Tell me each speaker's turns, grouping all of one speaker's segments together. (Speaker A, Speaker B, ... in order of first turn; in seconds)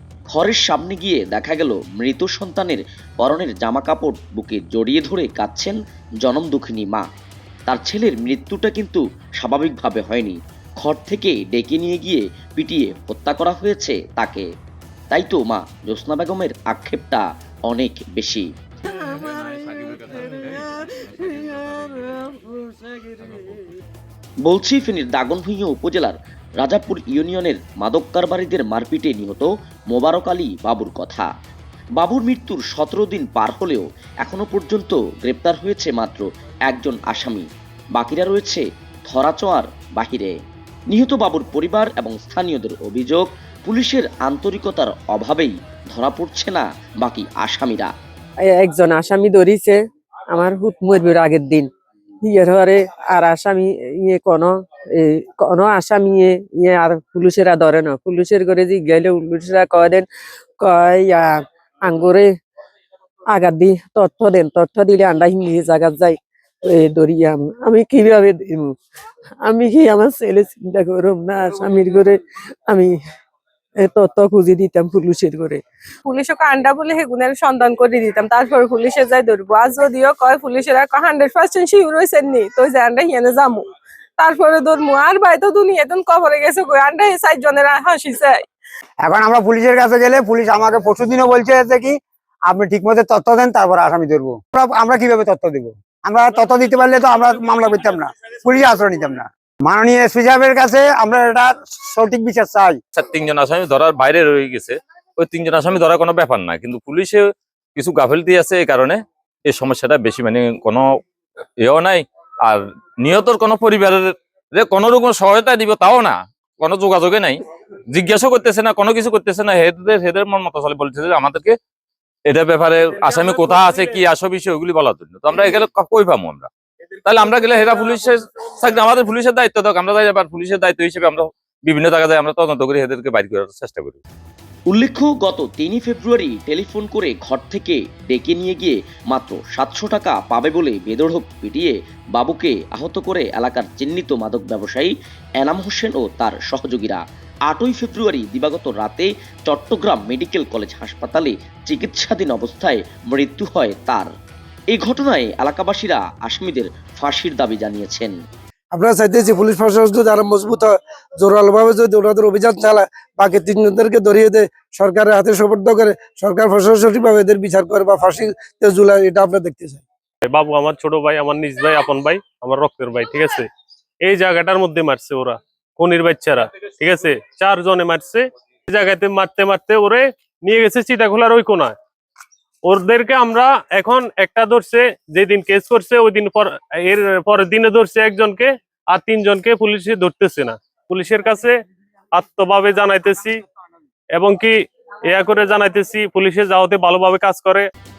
Speaker A: 0.3-7.1, 7.7-14.5, 15.1-18.5, 24.4-31.3, 32.0-40.4, 40.9-47.9, 134.7-154.1, 154.7-158.1
Speaker B: 48.4-51.7, 52.2-60.1, 60.6-62.3, 63.3-68.8, 69.5-73.0, 73.8-75.6
Speaker C: 76.0-83.7, 84.2-88.4
Speaker D: 89.0-102.8
Speaker E: 103.0-111.0, 111.6-121.6, 122.3-126.5, 127.0-134.0
Speaker F: 123.3-123.8, 170.2-173.5, 174.0-181.7, 182.7-191.6, 192.2-193.4, 194.2-194.6, 195.1-197.7
Speaker G: 158.7-169.8